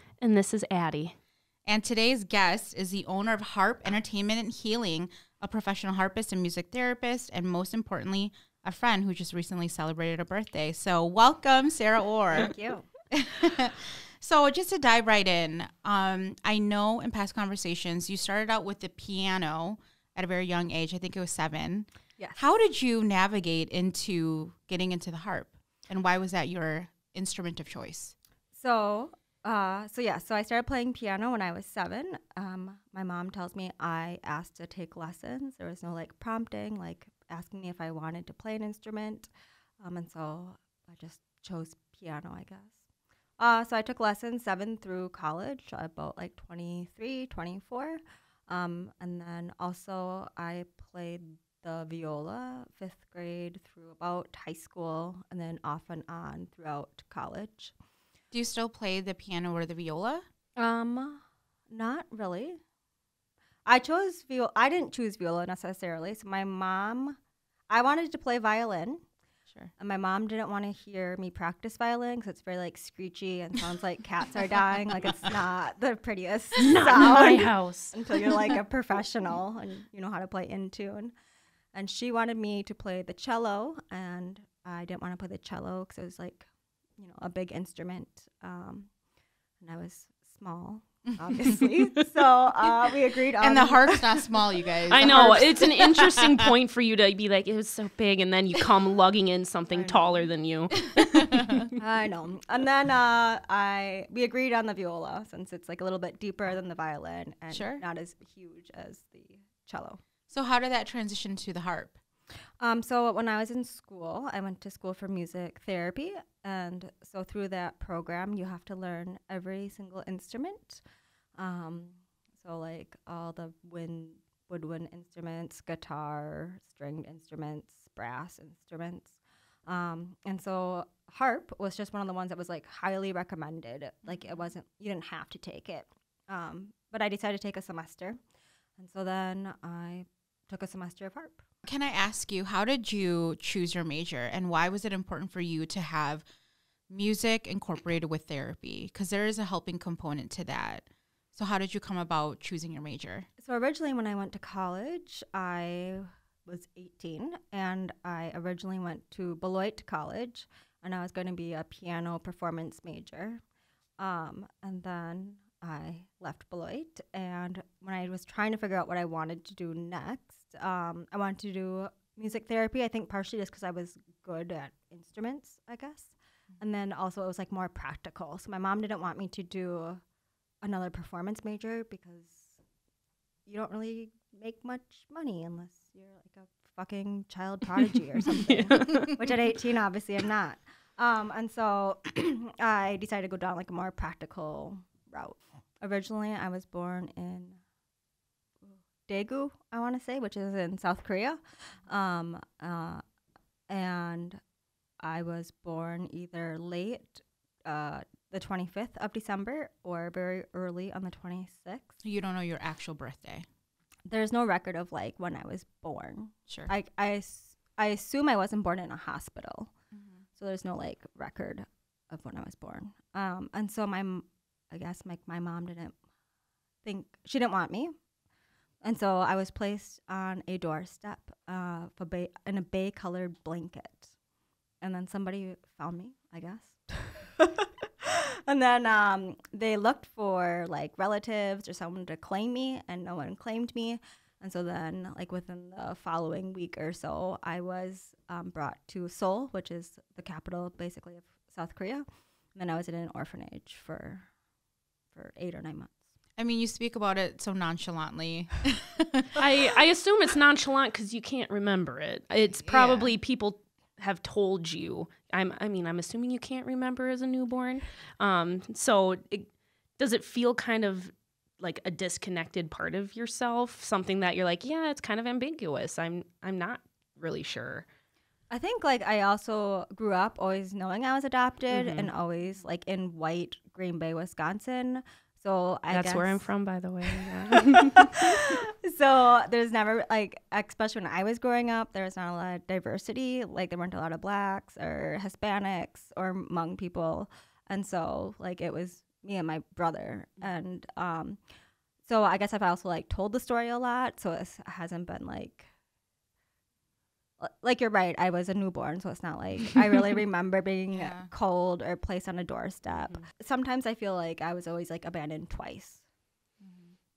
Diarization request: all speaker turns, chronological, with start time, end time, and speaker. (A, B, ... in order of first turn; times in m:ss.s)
0:00.2-0:01.2 A
0:01.6-0:12.5 B
0:12.3-0:12.9 C
0:13.1-0:28.1 B
0:28.5-0:42.8 C
0:43.4-0:57.7 C
0:58.3-1:00.2 B
1:00.6-1:02.6 C
1:03.6-1:07.2 C
1:07.7-1:09.0 C
1:09.8-1:21.1 C
1:16.6-1:18.5 A
1:21.7-1:26.4 C
1:27.0-1:28.9 C
1:29.6-1:34.4 C
1:33.4-1:36.5 B
1:34.9-1:41.7 A
1:34.9-1:35.5 C
1:39.7-1:40.2 C
1:40.9-1:41.7 B
1:41.8-1:50.0 C
1:47.5-1:47.8 B
1:50.3-1:52.0 B
1:52.6-2:00.8 C
2:01.4-2:18.2 C
2:14.0-2:14.4 B
2:18.8-2:21.4 C
2:21.6-2:26.2 B
2:26.9-2:33.3 B
2:33.4-2:43.4 C
2:44.0-3:00.0 C
3:00.6-3:02.6 C
3:03.4-3:17.6 C
3:08.3-3:09.2 A
3:18.7-3:23.0 C
3:23.7-3:24.4 C
3:25.0-3:32.0 C
3:32.0-3:33.4 B
3:34.1-3:39.7 C
3:40.4-3:46.0 C
3:46.8-3:47.9 C
3:48.8-3:54.1 C
3:54.8-4:14.3 C
4:15.1-4:16.0 C
4:16.4-4:19.4 B
4:19.4-4:37.8 A
4:22.6-4:23.1 B
4:38.5-4:46.4 C
4:41.7-4:42.1 A
4:45.9-4:48.3 A
4:47.6-5:01.4 C
5:02.0-5:05.7 C
5:07.4-5:16.0 C
5:10.9-5:11.3 B
5:16.6-5:16.9 B